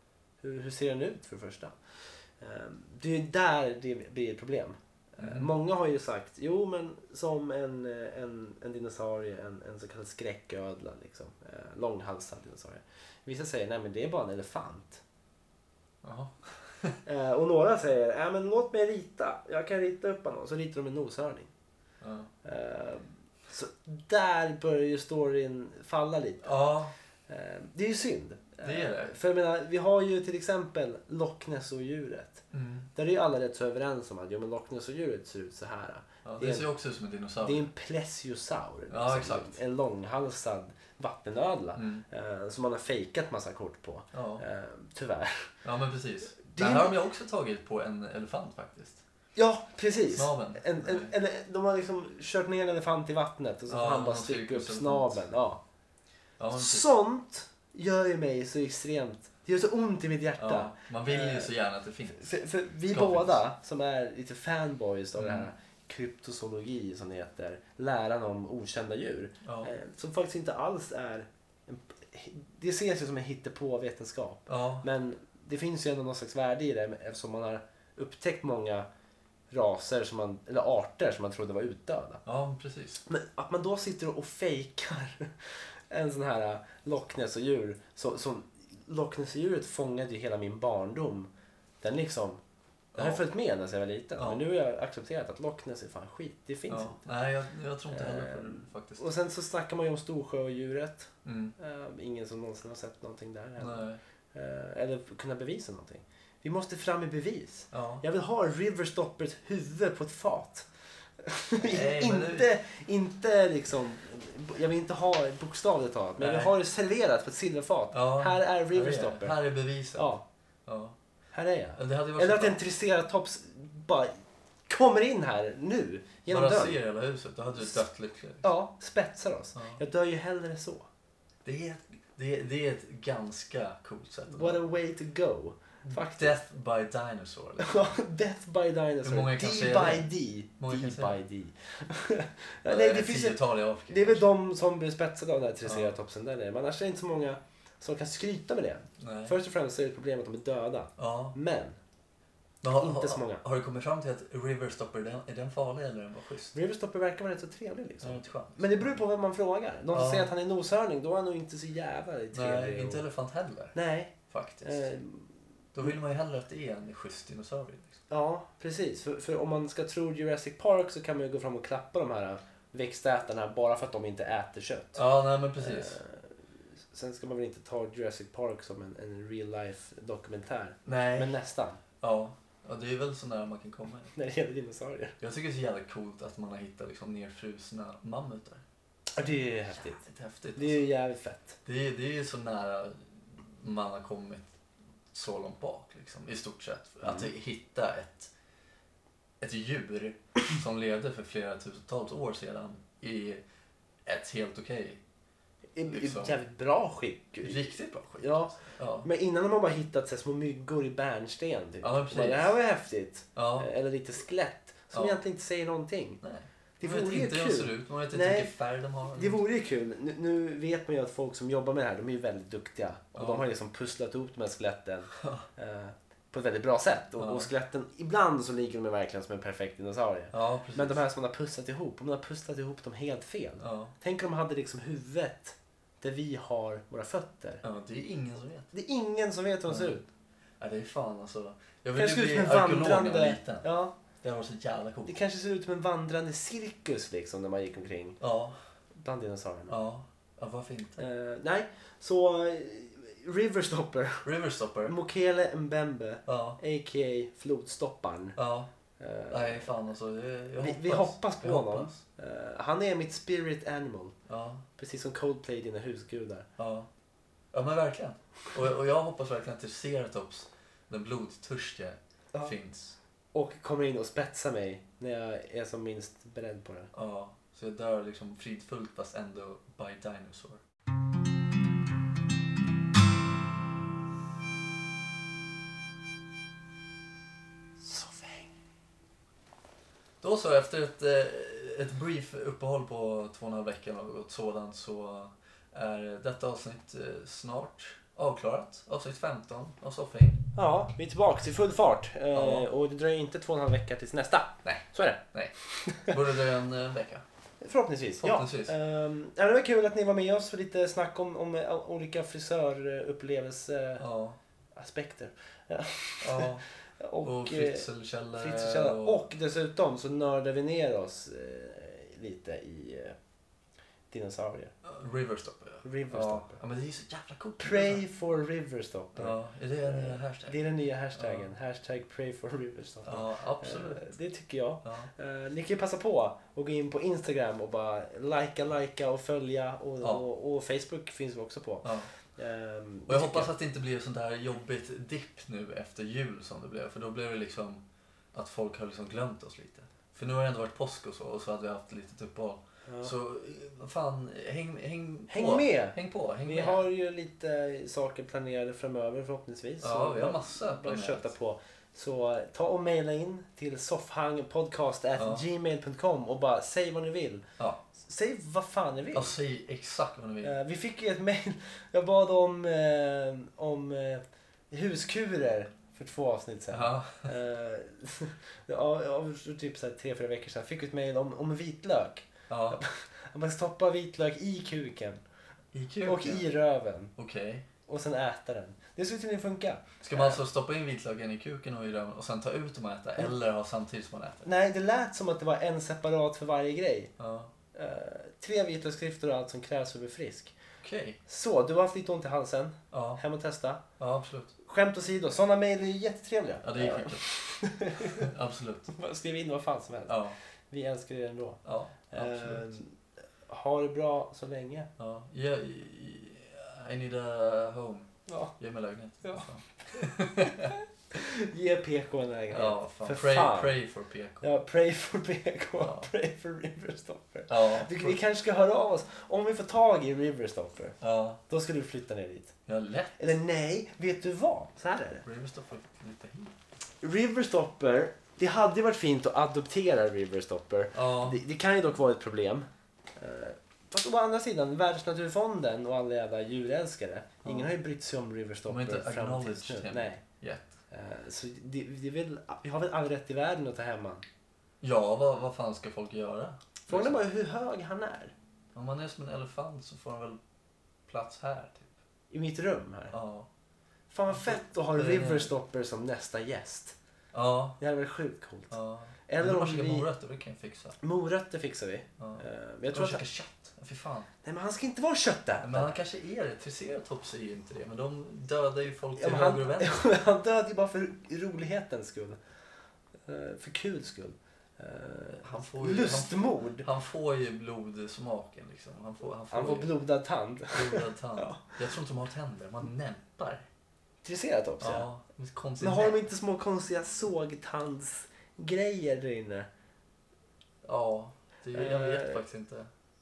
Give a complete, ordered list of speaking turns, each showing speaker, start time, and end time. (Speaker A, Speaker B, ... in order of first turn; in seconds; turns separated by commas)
Speaker A: 0.4-15.0, Speaker B: 5.2-5.5, Speaker B: 16.0-17.0, Speaker A: 17.0-21.5, Speaker B: 22.0-22.3, Speaker A: 22.4-26.6, Speaker B: 26.4-26.9, Speaker A: 27.3-36.7, Speaker B: 28.6-29.1, Speaker B: 32.5-32.9, Speaker B: 36.2-37.7, Speaker A: 37.4-45.5, Speaker B: 38.9-39.5, Speaker B: 41.7-42.0, Speaker B: 44.1-44.4, Speaker B: 45.6-49.0, Speaker A: 46.5-47.0, Speaker A: 49.4-55.6, Speaker B: 50.1-51.1, Speaker B: 53.7-55.2, Speaker B: 56.4-56.9, Speaker A: 56.5-61.5, Speaker B: 60.4-62.3, Speaker A: 62.1-78.8, Speaker B: 62.9-63.4, Speaker B: 65.2-65.5, Speaker B: 69.4-69.7, Speaker B: 74.5-74.8, Speaker A: 79.5-82.2, Speaker B: 82.2-83.0, Speaker A: 83.0-91.3, Speaker A: 91.8-92.4, Speaker B: 92.9-93.2, Speaker A: 92.9-97.0, Speaker B: 94.2-94.4, Speaker B: 96.7-99.1, Speaker A: 97.9-110.7, Speaker B: 101.2-101.5, Speaker B: 103.6-104.0, Speaker B: 107.7-108.0, Speaker A: 111.2-119.4, Speaker B: 111.6-112.5, Speaker B: 116.2-116.5, Speaker B: 117.9-120.1, Speaker A: 119.9-120.2, Speaker B: 120.7-121.0, Speaker A: 121.3-124.2, Speaker B: 121.8-122.6, Speaker A: 124.7-126.8, Speaker B: 126.3-128.5, Speaker A: 127.6-127.9, Speaker A: 128.4-130.9, Speaker B: 129.5-129.8, Speaker B: 131.4-134.6, Speaker A: 134.3-136.4, Speaker B: 135.8-137.9, Speaker A: 137.6-151.8, Speaker B: 139.0-141.2, Speaker B: 142.7-144.3, Speaker B: 145.7-145.9, Speaker B: 149.0-149.3, Speaker B: 151.0-151.3, Speaker B: 152.6-156.5, Speaker A: 152.8-153.4, Speaker A: 156.5-163.0, Speaker B: 158.0-159.0, Speaker B: 159.9-160.3, Speaker B: 162.3-164.9, Speaker A: 163.7-165.3, Speaker B: 165.7-168.0, Speaker A: 168.1-175.0, Speaker B: 174.9-176.0, Speaker A: 175.6-181.8, Speaker B: 180.8-181.4, Speaker B: 182.0-184.1, Speaker A: 184.1-185.2, Speaker B: 185.2-188.6, Speaker A: 189.1-190.0, Speaker B: 189.7-190.8, Speaker A: 190.6-191.6, Speaker B: 191.7-194.5, Speaker B: 195.1-198.3, Speaker A: 197.0-197.3, Speaker B: 199.4-203.4, Speaker B: 204.0-205.0, Speaker A: 205.8-216.2, Speaker B: 205.8-206.3, Speaker B: 207.4-209.1, Speaker B: 211.8-212.5, Speaker B: 213.3-213.7, Speaker B: 214.9-215.2, Speaker B: 216.2-219.4, Speaker A: 216.8-218.5, Speaker A: 219.1-237.6, Speaker B: 223.2-223.4, Speaker B: 225.2-225.5, Speaker B: 227.2-227.5, Speaker B: 230.3-231.0, Speaker B: 233.6-233.9, Speaker B: 237.6-238.7, Speaker A: 238.7-240.1, Speaker B: 239.7-240.0, Speaker B: 240.6-243.7, Speaker A: 241.9-243.9, Speaker B: 244.2-245.1, Speaker A: 245.0-248.2, Speaker B: 248.2-248.6, Speaker A: 248.9-249.8, Speaker B: 249.7-251.0, Speaker A: 251.0-254.2, Speaker B: 254.2-254.9, Speaker A: 254.8-258.4, Speaker B: 256.2-256.6, Speaker B: 258.4-258.7, Speaker A: 259.0-259.7, Speaker B: 259.3-262.0, Speaker A: 260.6-264.1, Speaker B: 264.3-264.6, Speaker A: 264.8-266.5, Speaker B: 266.6-266.9, Speaker B: 267.5-273.0, Speaker A: 273.3-276.9, Speaker B: 276.9-280.6, Speaker A: 287.8-288.5, Speaker B: 290.2-300.4, Speaker A: 300.5-306.1, Speaker B: 302.3-302.7, Speaker B: 304.6-307.2, Speaker A: 307.6-314.0, Speaker B: 308.2-308.7, Speaker B: 314.0-314.4, Speaker A: 314.7-323.2, Speaker B: 316.2-316.6, Speaker B: 317.2-319.2, Speaker A: 324.1-324.7, Speaker B: 324.8-328.0, Speaker A: 325.8-326.6, Speaker A: 327.6-343.5, Speaker B: 329.1-330.6, Speaker B: 331.1-331.4, Speaker B: 333.0-334.1, Speaker B: 334.8-335.1, Speaker B: 341.8-342.1, Speaker B: 343.1-347.8, Speaker B: 348.3-356.8, Speaker A: 352.9-353.1, Speaker A: 355.3-367.4, Speaker B: 359.8-361.3, Speaker B: 365.2-365.4, Speaker A: 368.0-369.3, Speaker B: 369.1-370.5, Speaker A: 370.4-385.2, Speaker B: 376.7-377.3, Speaker B: 382.5-382.8, Speaker B: 385.7-386.4, Speaker A: 386.0-387.1, Speaker B: 387.2-387.6, Speaker A: 387.9-390.4, Speaker B: 390.0-394.5, Speaker A: 394.4-397.1, Speaker B: 397.2-397.5, Speaker A: 397.7-400.5, Speaker B: 400.8-401.2, Speaker A: 401.2-403.8, Speaker B: 402.9-403.2, Speaker B: 404.0-404.5, Speaker A: 404.6-408.3, Speaker B: 406.6-408.9, Speaker A: 408.9-412.9, Speaker B: 410.1-410.4, Speaker B: 411.6-412.8, Speaker A: 413.5-414.9, Speaker B: 415.0-420.7, Speaker A: 418.3-418.5, Speaker A: 421.1-423.8, Speaker B: 422.5-424.5, Speaker A: 424.4-432.5, Speaker B: 425.8-426.1, Speaker B: 427.5-428.2, Speaker B: 431.0-431.4, Speaker B: 432.7-433.3, Speaker A: 433.2-435.2, Speaker B: 435.2-436.5, Speaker A: 437.0-450.2, Speaker B: 440.9-441.4, Speaker B: 448.7-450.7, Speaker A: 450.9-454.2, Speaker B: 454.8-457.2, Speaker A: 456.9-458.3, Speaker B: 458.7-460.4, Speaker B: 461.1-461.9, Speaker A: 462.3-463.1, Speaker B: 463.1-463.5, Speaker A: 464.1-466.9, Speaker B: 464.3-465.5, Speaker B: 467.3-467.8, Speaker A: 467.8-470.1, Speaker B: 468.7-470.9, Speaker A: 471.0-473.2, Speaker B: 472.2-474.3, Speaker A: 474.4-476.0, Speaker B: 475.6-480.1, Speaker A: 479.2-482.4, Speaker A: 483.2-486.9, Speaker B: 485.4-489.9, Speaker A: 489.5-491.6, Speaker B: 490.7-493.6, Speaker A: 494.2-495.1, Speaker B: 494.8-496.2, Speaker A: 495.8-499.7, Speaker B: 500.8-502.9, Speaker A: 501.7-502.4